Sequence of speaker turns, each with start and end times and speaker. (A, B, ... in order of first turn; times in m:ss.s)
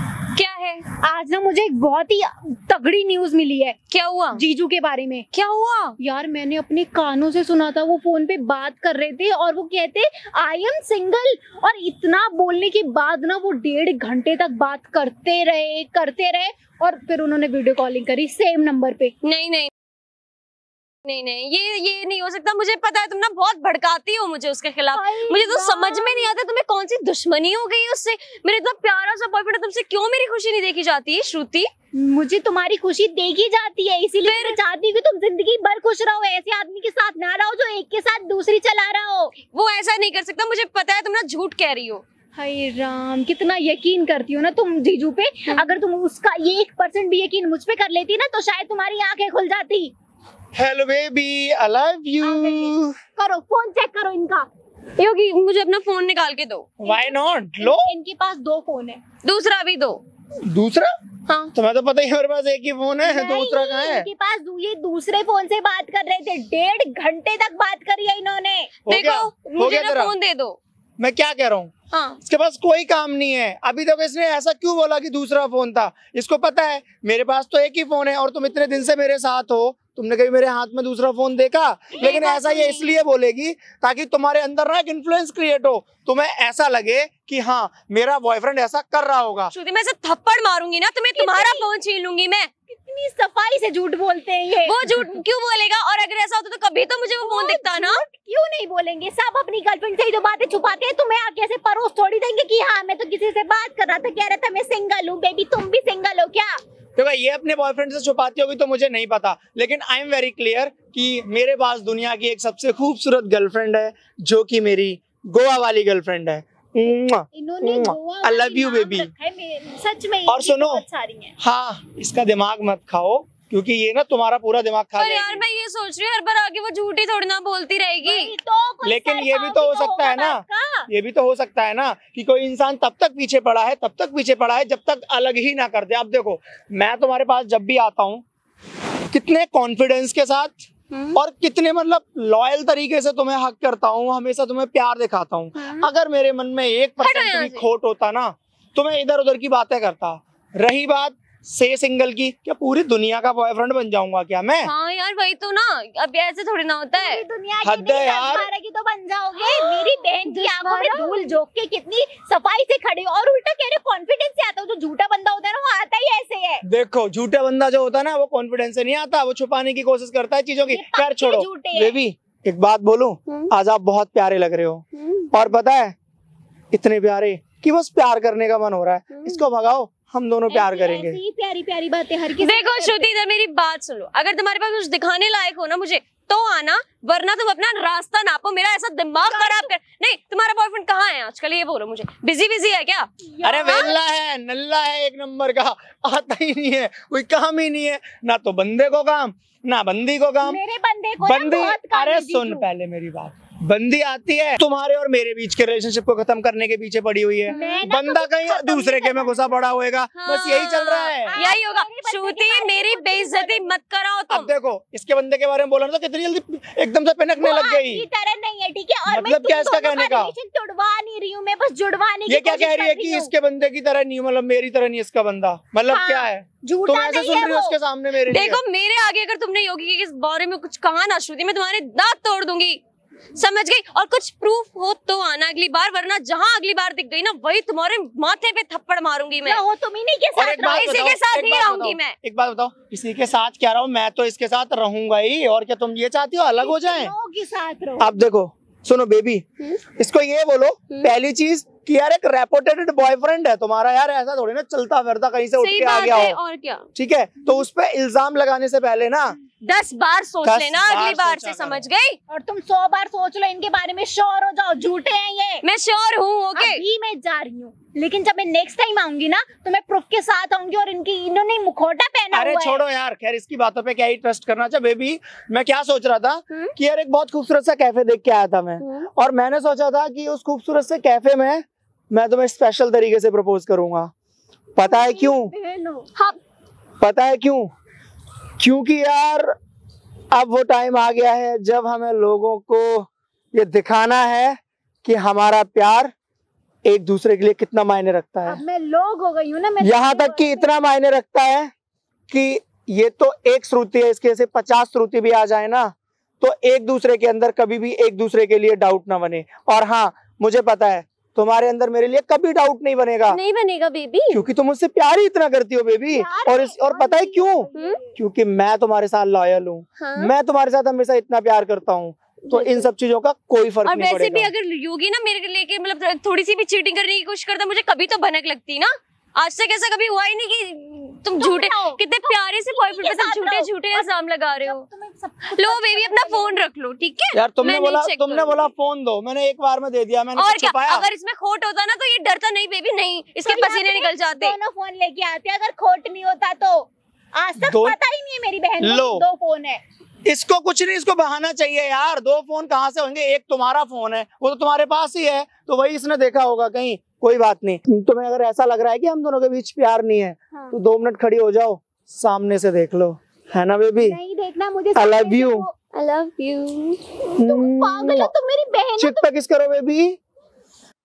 0:00.3-0:00.8 A
0:01.0-0:03.8 B
0:03.9-0:04.4 A
0:04.3-0:05.3 B
0:05.3-0:06.0 A
0:06.0-0:19.1 B
0:19.2-0:19.7 A
0:21.0-0:31.7 A
0:24.9-0:26.3 B
0:31.9-0:39.3 B
0:34.2-0:34.6 A
0:39.5-0:42.0 A
0:42.4-0:49.9 B
0:50.6-0:53.0 C
0:52.2-0:54.5 B
0:55.0-0:56.7 A
0:56.8-0:57.9 C
0:56.8-0:59.0 B
0:59.2-1:00.0 A
1:00.4-1:00.9 C
1:01.5-1:04.1 C
1:03.0-1:08.7 B
1:08.8-1:10.6 A
1:08.9-1:10.1 C
1:11.0-1:11.7 C
1:11.9-1:12.2 A
1:12.2-1:29.5 C
1:22.0-1:23.0 A
1:29.5-1:32.5 A
1:31.1-1:31.7 B
1:32.7-1:34.8 B
1:34.6-1:38.0 A
1:37.2-1:46.5 B
1:47.0-1:59.1 C
1:57.3-2:01.3 B
2:00.3-2:00.8 C
2:01.4-2:05.4 C
2:05.0-2:08.3 A
2:08.0-2:10.9 B
2:08.8-2:18.2 C
2:19.1-2:34.7 C
2:20.9-2:21.2 A
2:25.6-2:25.9 A
2:27.0-2:27.7 A
2:34.6-2:37.2 A
2:36.9-2:46.6 B
2:37.6-2:38.5 C
2:39.4-2:41.2 A
2:46.6-2:56.0 C
2:50.7-2:52.0 B
2:55.0-2:55.4 A
2:56.7-3:01.2 C
2:59.1-2:59.4 A
3:00.5-3:03.1 B
3:02.4-3:13.1 A
3:09.2-3:09.7 B
3:13.2-3:14.0 B
3:13.4-3:20.6 C
3:13.7-3:13.9 A
3:20.4-3:22.6 B
3:21.2-3:31.4 C
3:27.5-3:27.8 A
3:27.5-3:29.6 B
3:30.1-3:34.5 A
3:31.2-3:33.7 B
3:34.3-3:38.0 C
3:37.4-3:43.3 B
3:39.1-3:40.3 C
3:42.3-3:48.6 C
3:45.9-3:47.8 B
3:48.3-3:52.8 A
3:53.3-3:59.6 A
3:59.4-4:01.1 B
4:00.4-4:07.1 C
4:00.6-4:02.1 A
4:06.6-4:08.1 B
4:08.0-4:16.4 C
4:15.6-4:16.8 A
4:16.9-4:19.4 C
4:19.6-4:22.2 A
4:20.4-4:21.8 C
4:22.3-4:25.6 B
4:25.6-4:26.8 A
4:26.6-4:32.8 B
4:32.3-4:44.1 C
4:38.8-4:39.1 A
4:44.7-4:45.5 C
4:44.8-4:46.1 B
4:47.0-4:47.7 C
4:48.6-4:49.5 C
4:50.3-4:56.1 C
4:56.8-4:58.6 C
4:58.4-5:00.7 B
4:59.8-5:01.7 C
5:02.3-5:13.4 C
5:13.3-5:14.4 A
5:14.3-5:24.5 C
5:16.1-5:18.2 B
5:20.0-5:20.3 A
5:22.5-5:22.9 A
5:23.8-5:34.8 A
5:31.4-5:32.0 B
5:32.6-5:36.6 B
5:35.5-5:38.7 A
5:37.3-5:41.1 C
5:40.4-5:44.5 A
5:43.4-5:49.8 B
5:47.6-5:48.0 C
5:48.8-5:49.2 C
5:50.2-6:04.2 C
6:04.0-6:05.8 B
6:04.9-6:05.7 C
6:05.9-6:07.0 A
6:07.3-6:09.3 B
6:07.4-6:08.3 C
6:09.0-6:10.2 C